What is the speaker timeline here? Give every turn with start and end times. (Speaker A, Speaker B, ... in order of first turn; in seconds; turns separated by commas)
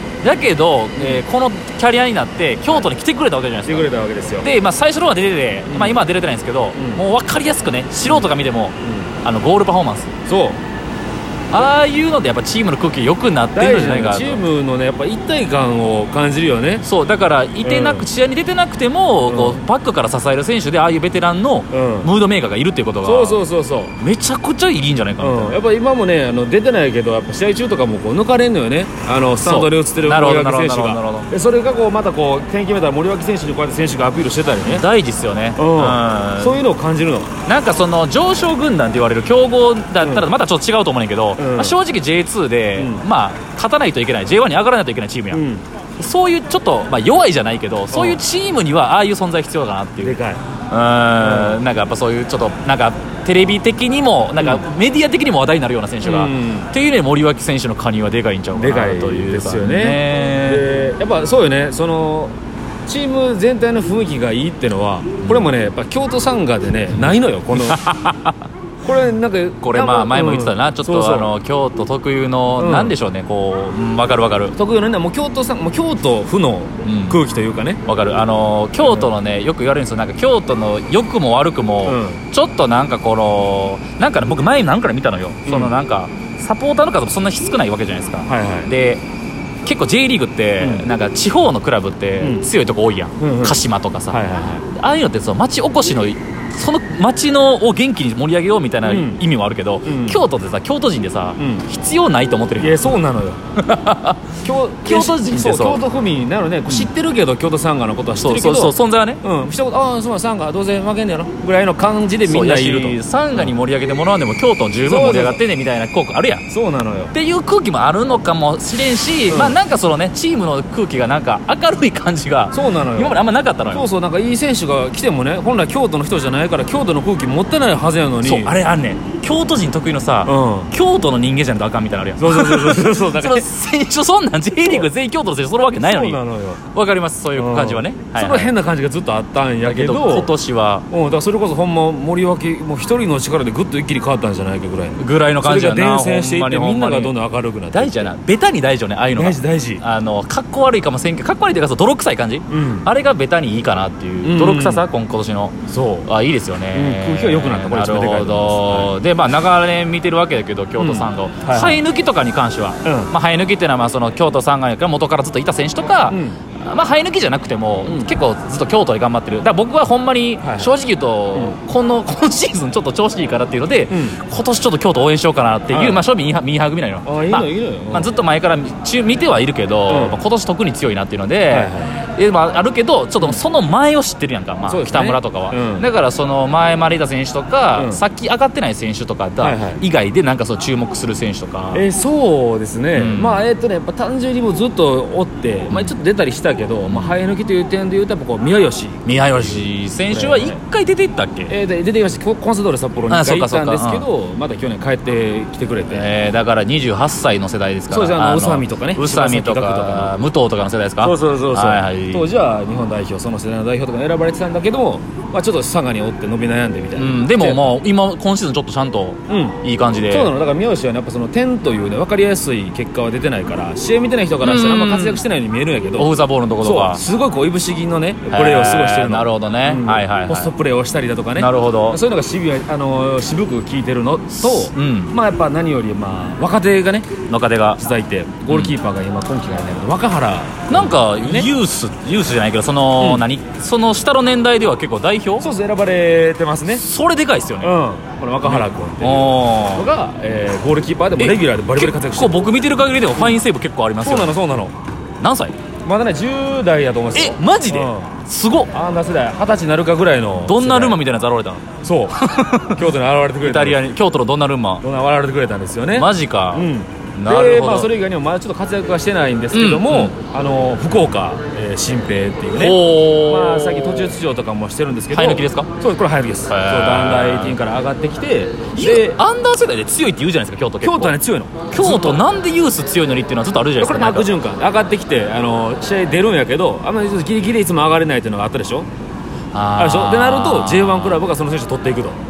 Speaker A: 0.2-3.9, Speaker B: 3.6-4.5, Speaker A: 4.4-10.1, Speaker B: 5.7-6.0, Speaker B: 6.7-7.0, Speaker B: 10.3-10.6, Speaker A: 11.5-14.4, Speaker B: 13.5-16.8, Speaker A: 16.8-23.4, Speaker B: 17.6-18.1, Speaker B: 19.3-19.6, Speaker B: 21.7-22.1, Speaker B: 23.0-23.9, Speaker A: 24.0-25.6, Speaker B: 25.2-34.9, Speaker A: 29.4-31.3, Speaker A: 34.6-36.6, Speaker B: 35.5-37.3, Speaker A: 37.5-45.4, Speaker B: 40.0-40.3, Speaker B: 41.4-41.8, Speaker B: 42.8-43.0, Speaker B: 45.3-45.6, Speaker A: 46.0-50.2, Speaker B: 47.9-48.2, Speaker B: 50.0-50.4, Speaker A: 50.7-60.6, Speaker B: 51.2-51.6, Speaker B: 56.0-56.7, Speaker B: 58.5-62.3, Speaker B: 62.9-67.8, Speaker A: 67.5-68.4, Speaker B: 68.8-71.3, Speaker A: 69.6-74.5, Speaker B: 72.6-72.9, Speaker B: 74.5-77.8, Speaker A: 76.8-77.2, Speaker A: 77.8-89.0, Speaker B: 78.8-79.1, Speaker B: 81.8-82.2, Speaker B: 85.5-85.7, Speaker B: 88.3-88.7, Speaker A: 89.6-94.2, Speaker B: 90.6-90.9, Speaker B: 92.2-92.5, Speaker B: 93.2-93.6, Speaker B: 94.1-94.7, Speaker A: 94.7-102.8, Speaker B: 98.8-99.2, Speaker B: 99.8-100.2, Speaker B: 101.4-101.7, Speaker B: 102.6-103.4, Speaker A: 103.6-105.8, Speaker B: 104.4-113.5, Speaker A: 108.2-109.2, Speaker A: 112.2-116.4, Speaker B: 114.8-115.4, Speaker B: 116.5-117.1, Speaker A: 117.1-123.9, Speaker B: 119.3-119.6, Speaker B: 122.5-123.2, Speaker B: 123.7-128.5, Speaker A: 128.2-136.2, Speaker B: 130.2-130.7, Speaker B: 132.2-133.5, Speaker B: 135.8-136.6, Speaker A: 136.7-138.5, Speaker B: 137.3-140.3, Speaker A: 139.6-140.8, Speaker B: 140.9-148.1, Speaker A: 145.0-147.1, Speaker A: 147.7-191.8, Speaker B: 149.1-149.8, Speaker B: 152.5-152.9, Speaker B: 154.2-154.9, Speaker B: 155.7-156.1, Speaker B: 156.7-158.9, Speaker B: 160.8-161.8, Speaker B: 162.8-163.1, Speaker B: 166.1-166.4, Speaker B: 167.8-168.1, Speaker B: 170.4-170.7, Speaker B: 173.9-174.2, Speaker B: 175.7-176.0, Speaker B: 177.0-178.1, Speaker B: 179.9-180.2, Speaker B: 181.5-181.9, Speaker B: 184.7-185.8, Speaker B: 187.7-188.0, Speaker B: 189.4-189.8, Speaker B: 191.7-200.6, Speaker A: 192.9-193.4, Speaker A: 195.7-195.9, Speaker A: 196.9-197.2, Speaker A: 199.0-201.5, Speaker B: 201.5-206.0, Speaker A: 203.1-204.1, Speaker A: 205.9-212.3, Speaker B: 207.9-210.1, Speaker B: 211.0-217.6, Speaker A: 216.9-220.3, Speaker B: 219.3-237.1, Speaker A: 224.4-225.2, Speaker A: 226.0-227.0, Speaker A: 228.3-230.5, Speaker A: 231.3-232.0, Speaker A: 234.4-235.1, Speaker A: 237.3-237.8, Speaker B: 237.8-241.5, Speaker A: 238.5-238.7, Speaker A: 240.7-245.5, Speaker B: 243.0-243.2, Speaker B: 245.4-246.8, Speaker A: 246.7-247.7, Speaker B: 247.6-252.4, Speaker A: 248.4-249.9, Speaker A: 251.2-254.3, Speaker B: 254.0-254.7, Speaker A: 255.2-255.6, Speaker B: 255.8-258.1, Speaker A: 257.1-258.7, Speaker B: 258.7-261.0, Speaker A: 260.4-261.6, Speaker B: 261.8-263.8, Speaker A: 262.2-262.8, Speaker A: 263.4-264.8, Speaker B: 264.8-279.2, Speaker A: 265.9-267.9, Speaker A: 269.5-270.1, Speaker A: 272.5-274.2, Speaker A: 275.1-275.7, Speaker A: 276.5-277.6, Speaker A: 278.7-281.1, Speaker B: 280.8-282.2, Speaker A: 281.7-284.3, Speaker B: 283.8-288.9, Speaker A: 289.5-291.2, Speaker B: 289.8-292.2